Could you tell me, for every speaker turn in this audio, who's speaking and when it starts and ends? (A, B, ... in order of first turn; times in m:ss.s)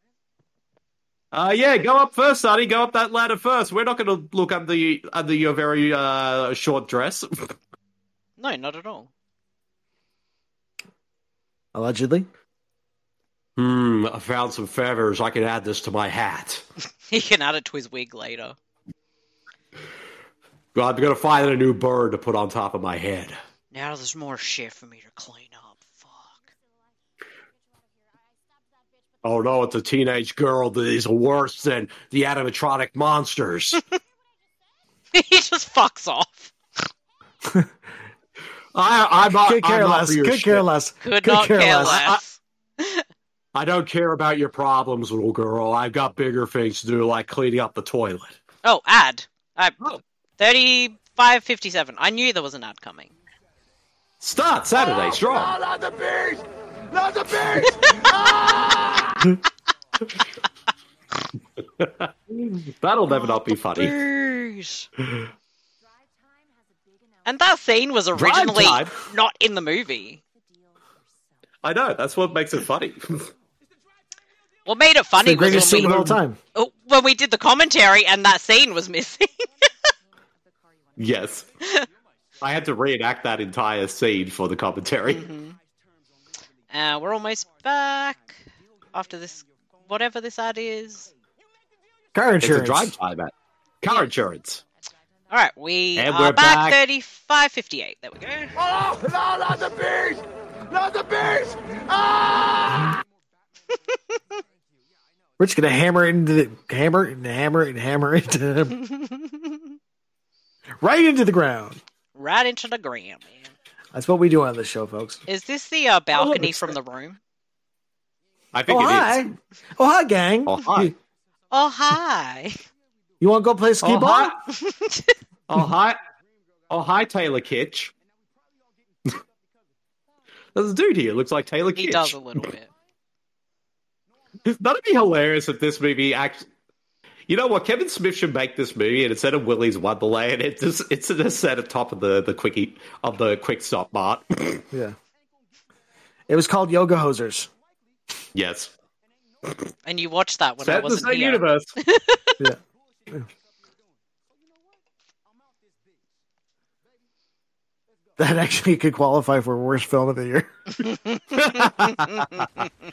0:01.3-0:07.5 A
0:08.4-0:09.1 B
0:11.7-0:12.3 C
0:13.6-0:16.6 A
0:17.1-0:18.6 B
0:20.7-0:23.4 A
0:23.7-0:26.5 B
0:29.2-0:33.8 A
0:35.1-0:36.5 B
0:38.7-0:40.6 A
0:39.3-0:42.0 C
0:41.0-0:43.0 B
0:41.8-0:42.2 A
0:43.5-0:48.4 A
0:48.6-0:49.8 B
0:50.4-0:53.1 B
0:54.2-0:55.6 A
0:54.8-0:59.1 D
0:57.5-0:58.1 B
1:01.8-1:04.0 A
1:03.1-1:04.9 B
1:07.2-1:10.2 B
1:08.1-1:09.0 A
1:11.6-1:13.3 A
1:14.6-1:16.0 B
1:15.2-1:16.4 C
1:15.5-1:16.2 A
1:16.5-1:19.4 B
1:21.0-1:21.5 A
1:21.6-1:21.8 B
1:22.4-1:25.3 A
1:25.1-1:25.6 B
1:26.7-1:31.1 B
1:32.1-1:32.9 C
1:32.4-1:34.6 A
1:35.3-1:38.5 B
1:36.0-1:36.8 A
1:38.6-1:42.9 D
1:45.4-1:48.7 C
1:48.8-1:49.5 B
1:50.8-1:51.8 C
1:52.1-1:53.5 B
1:53.9-1:55.2 C
1:55.3-1:57.2 B
1:56.1-1:56.7 A
1:58.5-1:59.3 A
1:58.7-2:00.9 C
2:00.5-2:00.9 A
2:01.5-2:02.6 B
2:03.2-2:04.3 C
2:03.8-2:04.4 A
2:04.5-2:05.1 B
2:05.5-2:06.0 A
2:06.7-2:07.9 A
2:10.5-2:12.2 A
2:11.7-2:12.7 B
2:14.4-2:16.5 A
2:17.3-2:24.6 A
2:26.3-2:27.5 C
2:28.3-2:28.7 A
2:29.8-2:32.3 B
2:30.6-2:31.7 A
2:38.2-2:40.5 C
2:40.8-2:42.6 B
2:41.4-2:42.1 A